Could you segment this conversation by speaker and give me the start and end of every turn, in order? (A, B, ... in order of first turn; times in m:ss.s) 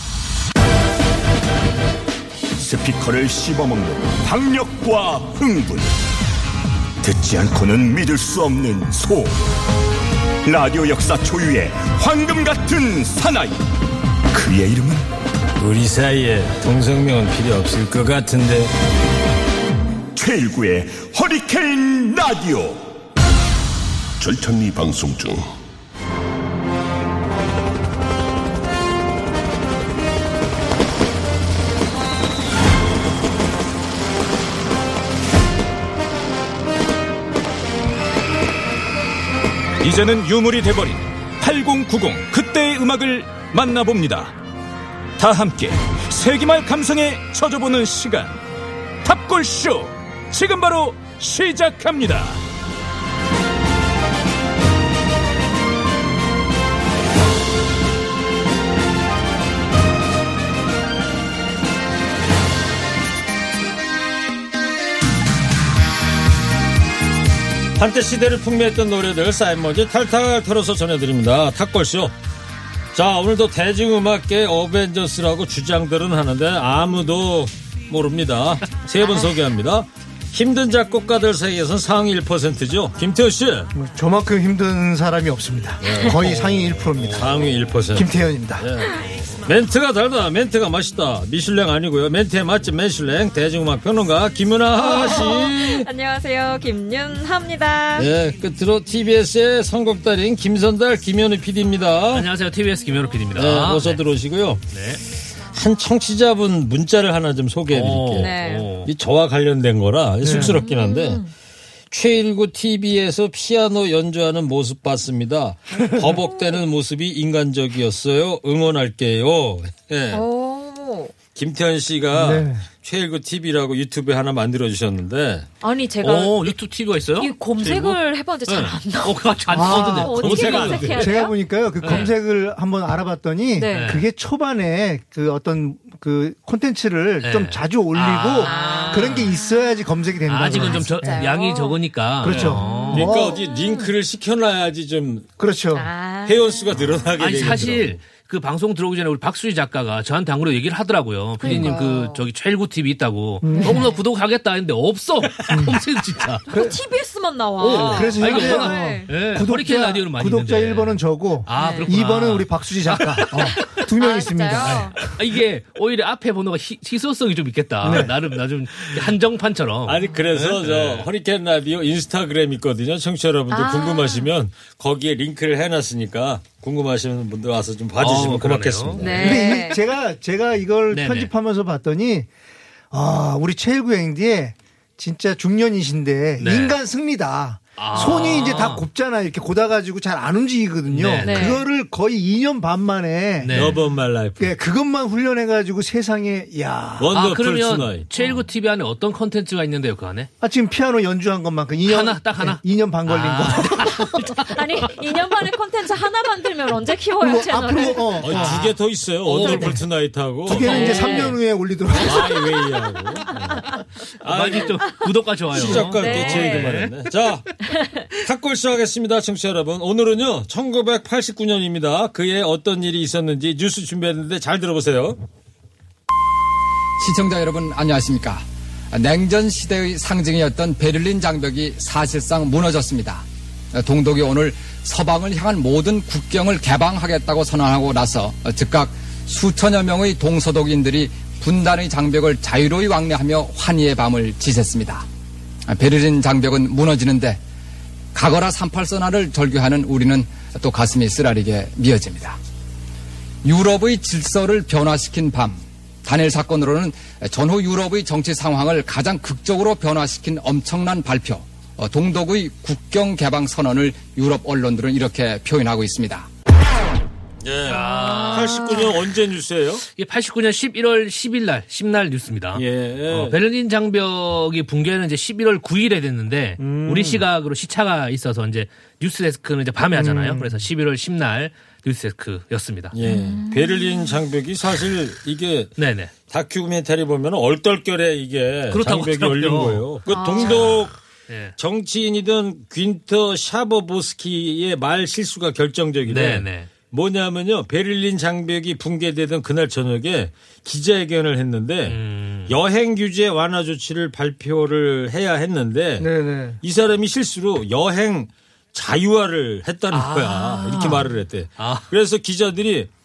0:02.6-0:05.9 A
0:07.0-0:09.3 A
0:10.4-0:13.6 A
0:14.3-0:15.0 A
0:15.6-0:18.7 B
0:20.1-0:22.8 A
0:24.2-0:25.4 A
0:39.8-0:44.3 C
0:45.2-0:48.3 C
0:49.0-0:52.4 C
1:07.8-1:12.1 B
1:12.9-1:23.7 B
1:23.7-1:28.7 D
1:25.8-1:26.3 B
1:26.2-1:26.9 E
1:27.0-1:35.9 B
1:34.8-1:38.1 F
1:38.0-1:42.3 B
1:42.1-1:44.0 E
1:43.3-1:44.7 B
1:44.7-1:45.0 E
1:45.5-1:51.2 B
1:47.7-1:48.9 E
1:48.2-1:48.7 F
1:50.2-1:50.6 D
1:50.3-1:51.3 F
1:51.9-2:00.2 B
2:00.1-2:01.1 F
2:01.3-2:05.5 B
2:02.1-2:02.6 D
2:05.6-2:06.5 F
2:06.0-2:11.2 E
2:07.2-2:12.1 F
2:09.5-2:21.3 D
2:10.2-2:11.0 B
2:11.8-2:12.1 E
2:13.5-2:14.0 F
2:13.8-2:14.0 E
2:17.2-2:19.3 E
2:18.4-2:19.6 F
2:20.3-2:23.1 E
2:20.5-2:23.9 F
2:22.2-2:23.4 D
2:22.3-2:25.3 B
2:25.4-2:25.9 D
2:25.8-2:26.7 F
2:26.2-2:28.0 B
2:27.2-2:36.5 E
2:31.4-2:32.2 F
2:31.4-2:31.7 D
2:33.4-2:33.8 D
2:33.6-2:34.0 F
2:35.5-2:35.8 D
2:36.5-2:36.8 D
2:36.5-2:39.1 F
2:37.6-2:43.8 E
2:37.6-2:45.1 D
2:41.5-2:42.0 F
2:43.8-2:45.0 F
2:44.6-2:51.1 E
2:47.8-2:48.1 D
2:49.8-2:59.4 B
2:53.5-2:54.3 F
2:58.0-2:59.6 E
2:59.0-2:59.8 F
2:59.2-3:02.3 D
3:00.9-3:01.3 E
3:02.9-3:13.7 D
3:06.4-3:06.8 E
3:07.8-3:08.8 E
3:07.9-3:08.4 F
3:10.9-3:11.6 E
3:11.2-3:11.6 F
3:13.4-3:13.8 E
3:13.5-3:14.5 B
3:14.4-3:17.2 D
3:17.0-3:18.0 B
3:17.1-3:20.3 E
3:18.2-3:18.4 F
3:20.4-3:24.3 D
3:21.9-3:24.4 E
3:24.4-3:28.2 F
3:27.2-3:28.6 D
3:28.2-3:30.9 B
3:28.3-3:29.8 E
3:29.4-3:29.7 F
3:30.4-3:32.5 D
3:30.5-3:31.4 E
3:30.6-3:31.3 F
3:32.0-3:37.5 B
3:34.2-3:36.9 E
3:35.6-3:36.7 F
3:37.8-3:38.0 F
3:38.2-3:45.2 B
3:47.0-4:05.0 G
4:05.7-4:07.4 G
4:08.1-4:12.4 G
4:13.4-4:26.3 G
4:27.4-4:29.8 B
4:27.7-4:28.9 E
4:28.2-4:28.4 F
4:29.9-4:42.9 E
4:32.5-4:33.4 B
4:36.6-4:37.2 B
4:39.9-4:40.7 D
4:42.9-4:45.8 B
4:43.0-4:44.2 F
4:45.8-4:46.1 E
4:46.3-4:50.9 B
4:48.7-4:49.8 E
4:50.1-4:50.8 F
4:51.3-4:51.5 E
4:51.6-5:06.1 B
4:56.1-4:56.7 E
5:01.9-5:02.5 E
5:06.0-5:06.6 D
5:06.6-5:12.9 B
5:09.9-5:11.8 E